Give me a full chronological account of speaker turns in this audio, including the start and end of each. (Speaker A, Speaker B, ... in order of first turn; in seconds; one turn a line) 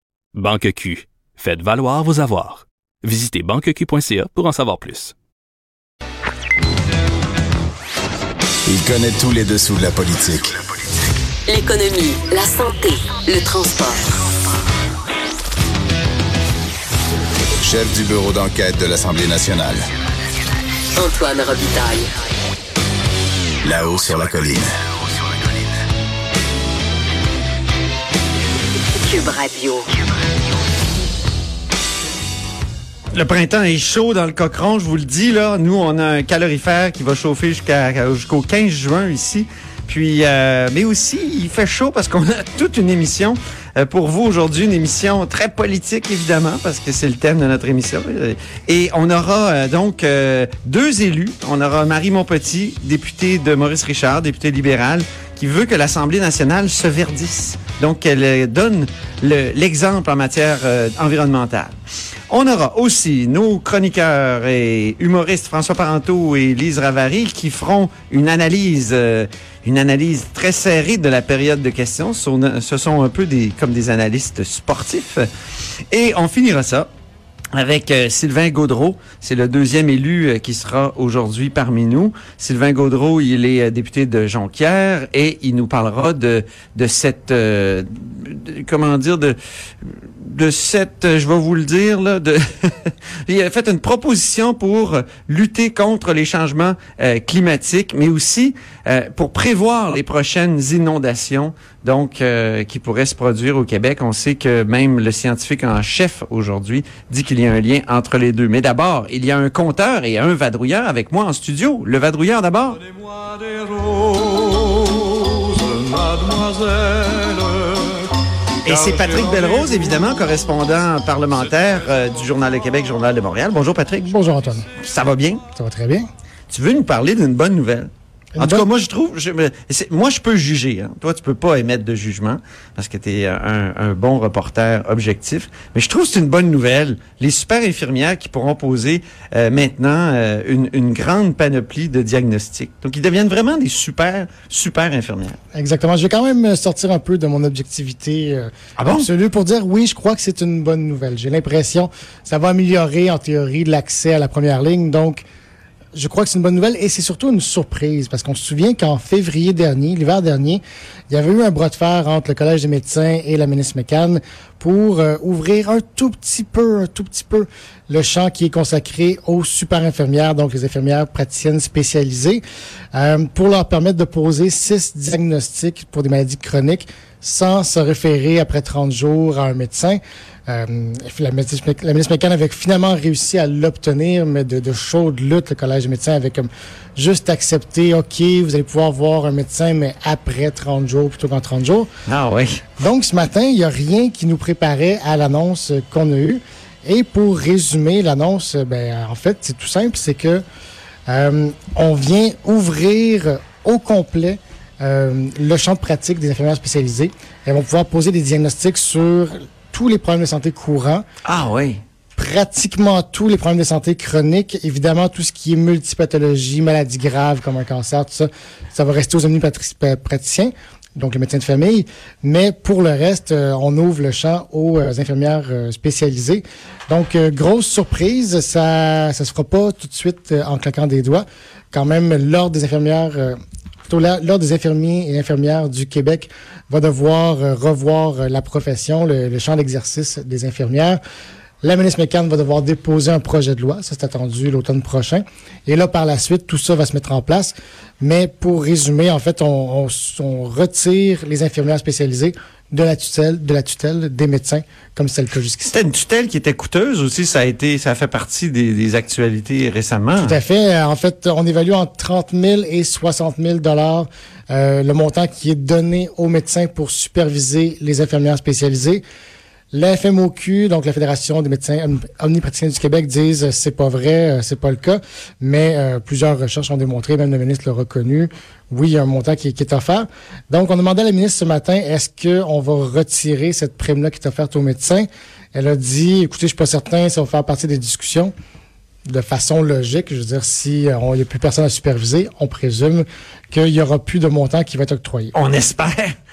Speaker A: 0.3-5.1
Speaker B: 8.7-10.6
Speaker C: 11.5-14.0
Speaker B: 17.6-19.8
Speaker C: 21.0-22.1
Speaker B: 23.6-24.8
Speaker C: 29.0-29.9
Speaker D: 33.1-61.8
Speaker D: 62.3-75.3
Speaker D: 75.9-76.9
Speaker D: 77.5-112.8
Speaker D: 114.3-115.1
Speaker D: 115.6-117.8
Speaker D: 118.7-125.4
Speaker E: 124.1-124.7
Speaker E: 125.5-126.1
Speaker D: 126.5-145.4
Speaker E: 128.3-128.7
Speaker E: 145.5-155.2
Speaker D: 148.8-149.1
Speaker E: 155.9-172.4
Speaker E: 172.9-191.9
Speaker D: 192.1-192.6
Speaker E: 192.8-200.4
Speaker E: 201.1-211.0
Speaker D: 211.2-211.8
Speaker E: 212.2-233.4
Speaker E: 233.9-241.0
Speaker E: 241.6-255.7
Speaker D: 255.7-260.4
Speaker E: 260.2-269.0
Speaker E: 269.7-288.3
Speaker E: 289.1-295.3
Speaker D: 295.3-296.1